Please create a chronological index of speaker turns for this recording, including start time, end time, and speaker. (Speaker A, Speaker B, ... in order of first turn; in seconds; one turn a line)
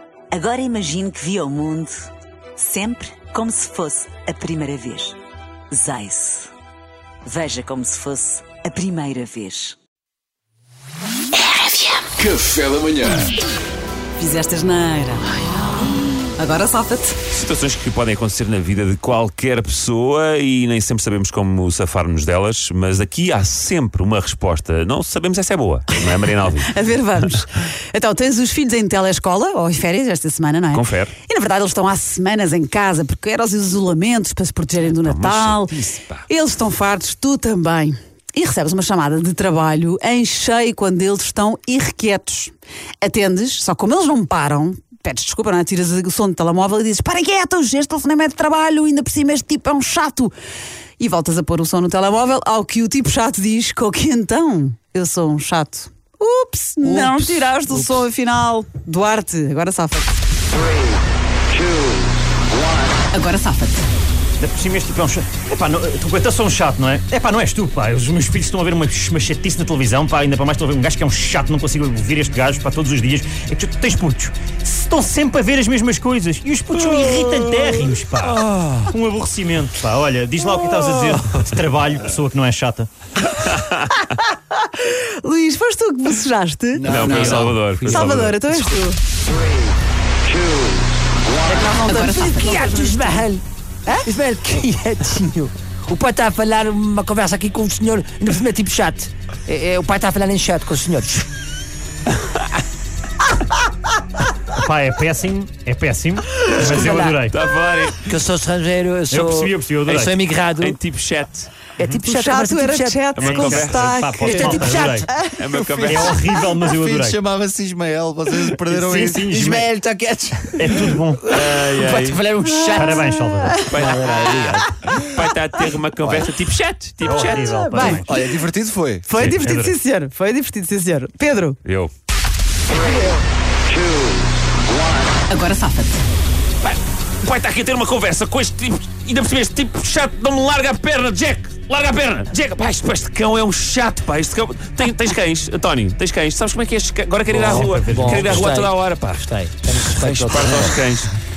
Speaker A: 0.3-5.2
Speaker A: 5.7-6.5
Speaker A: 7.2-9.8
Speaker B: 14.2-17.2
Speaker C: 17.3-27.2
Speaker B: 26.6-50.3
Speaker C: 30.7-31.1
Speaker C: 34.8-36.2
Speaker B: 51.0-60.2
Speaker D: 56.8-58.0
Speaker B: 63.1-63.9
Speaker E: 64.4-82.9
Speaker C: 76.8-78.9
Speaker B: 84.0-87.0
Speaker F: 86.8-87.7
Speaker C: 86.8-88.4
Speaker D: 86.9-88.1
Speaker B: 87.8-89.0
Speaker B: 91.4-93.2
Speaker D: 91.8-93.4
Speaker D: 94.0-101.3
Speaker E: 104.5-107.3
Speaker C: 106.5-108.2
Speaker D: 106.8-107.1
Speaker D: 108.0-110.8
Speaker E: 109.1-110.2
Speaker C: 110.6-111.6
Speaker D: 111.8-113.1
Speaker B: 112.0-115.3
Speaker C: 113.2-113.8
Speaker E: 113.2-115.1
Speaker D: 114.2-115.1
Speaker C: 115.3-116.2
Speaker F: 115.5-122.7
Speaker E: 115.8-117.2
Speaker E: 118.6-119.7
Speaker E: 120.5-121.3
Speaker C: 121.3-122.2
Speaker D: 122.0-123.0
Speaker E: 122.7-123.7
Speaker B: 123.4-123.7
Speaker C: 123.7-127.6
Speaker D: 123.8-124.4
Speaker E: 127.0-128.2
Speaker B: 127.5-128.2
Speaker F: 127.9-129.1
Speaker B: 129.1-131.6
Speaker E: 129.3-129.7
Speaker C: 131.6-131.9
Speaker B: 135.3-136.0
Speaker C: 136.6-151.1
Speaker D: 147.3-150.8
Speaker E: 147.4-148.5